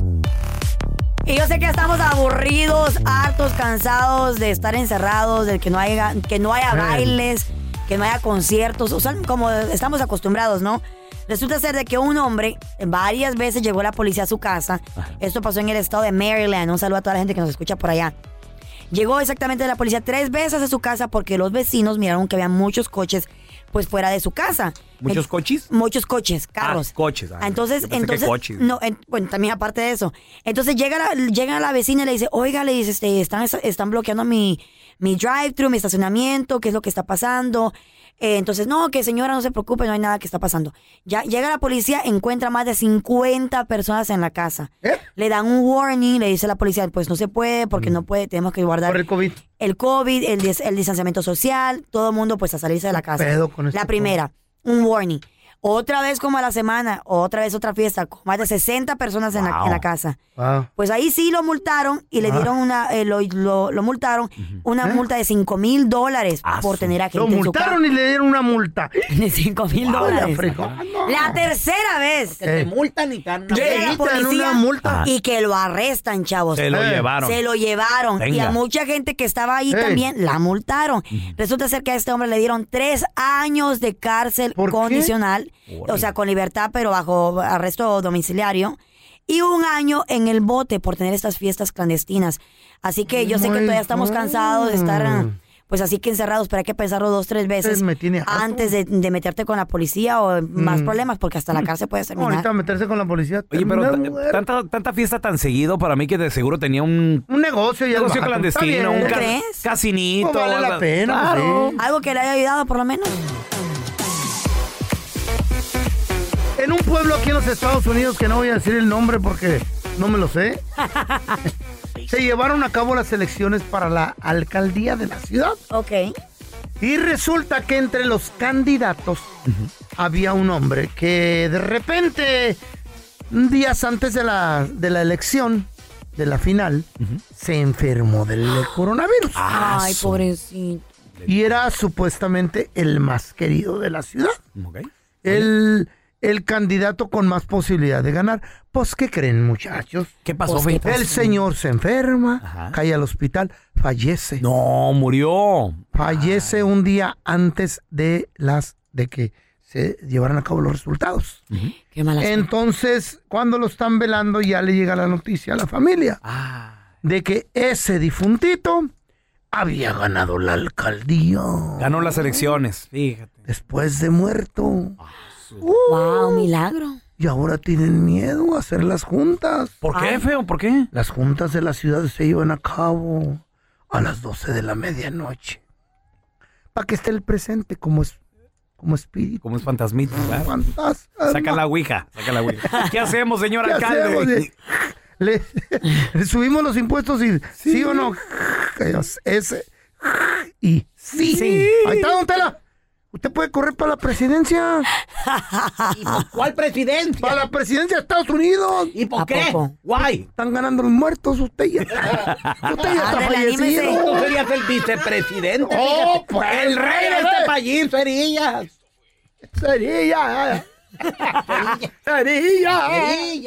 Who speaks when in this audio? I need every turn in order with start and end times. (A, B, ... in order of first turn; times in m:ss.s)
0:01.2-0:18.1 A
0:06.7-0:07.2 B
0:18.9-0:49.0 A
0:25.0-0:25.7 C
0:26.6-0:28.7 C
0:47.7-0:48.0 B
0:48.8-0:49.4 B
0:49.6-1:00.2 A
0:53.0-0:54.2 B
0:59.3-0:59.8 C
1:00.4-1:00.7 B
1:00.8-1:07.8 A
1:02.2-1:02.5 B
1:06.4-1:06.9 C
1:07.1-1:08.9 B
1:09.1-1:12.4 A
1:09.8-1:11.5 B
1:09.9-1:10.2 C
1:12.4-1:12.7 B
1:12.5-1:13.8 C
1:12.5-1:13.7 D
1:13.5-1:15.1 B
1:13.5-1:16.7 A
1:16.5-1:17.4 C
1:16.7-1:17.1 B
1:17.2-1:42.4 A
1:18.2-1:18.6 C
1:19.7-1:20.0 B
1:24.6-1:25.1 B
1:25.7-1:26.1 C
1:33.1-1:35.3 B
1:37.6-1:38.7 B
1:40.6-1:41.0 B
1:42.2-1:44.4 B
1:43.5-1:47.2 C
1:47.3-1:49.3 B
1:47.9-1:51.8 C
1:49.0-1:49.6 A
1:50.2-1:51.8 B
1:51.8-1:53.2 A
1:56.6-2:00.6 B
2:00.9-2:01.4 A
2:02.0-2:05.6 B
2:05.7-2:06.1 A
2:06.8-2:09.3 B
2:10.0-2:12.6 B
2:13.3-2:19.5 B
2:19.3-2:20.2 C
2:19.5-2:20.8 A
2:21.2-2:21.5 C
2:21.3-2:24.4 B
2:24.6-2:25.5 C
2:25.2-2:30.1 B
2:30.2-2:31.0 C
2:30.5-2:31.4 A
2:30.8-2:34.4 B
2:32.4-2:32.8 C
2:34.4-2:36.7 C
2:35.9-2:41.4 B
2:41.9-2:42.5 A
2:42.2-2:46.2 B
2:46.2-2:46.8 C
2:47.0-2:48.9 B
2:49.5-2:52.5 B
2:51.8-2:53.4 C
2:53.5-2:55.0 B
2:55.0-2:55.6 C
2:55.6-2:56.5 B
2:55.9-2:57.0 A
2:57.2-2:59.7 B
2:59.8-3:00.9 C
2:59.9-3:00.2 A
3:00.9-3:05.6 B
3:06.7-3:08.2 B
3:08.8-3:09.6 B
3:09.4-3:10.5 C
3:10.1-3:11.6 B
3:11.3-3:14.5 C
3:13.6-3:22.6 B
3:17.6-3:18.0 C
3:21.4-3:21.7 A
3:23.1-3:24.9 B
3:25.2-3:26.2 A
3:26.1-3:27.2 C
3:26.5-3:27.3 D
3:27.2-3:29.0 B
3:29.0-3:29.4 D
3:29.0-3:29.3 C
3:29.2-3:29.7 A
3:29.8-3:30.2 C
3:30.3-3:34.3 B
3:32.4-3:32.7 C
3:32.8-3:34.0 A
3:34.1-3:37.5 C
3:34.2-3:38.7 D
3:35.6-3:37.5 B
3:39.5-3:43.2 B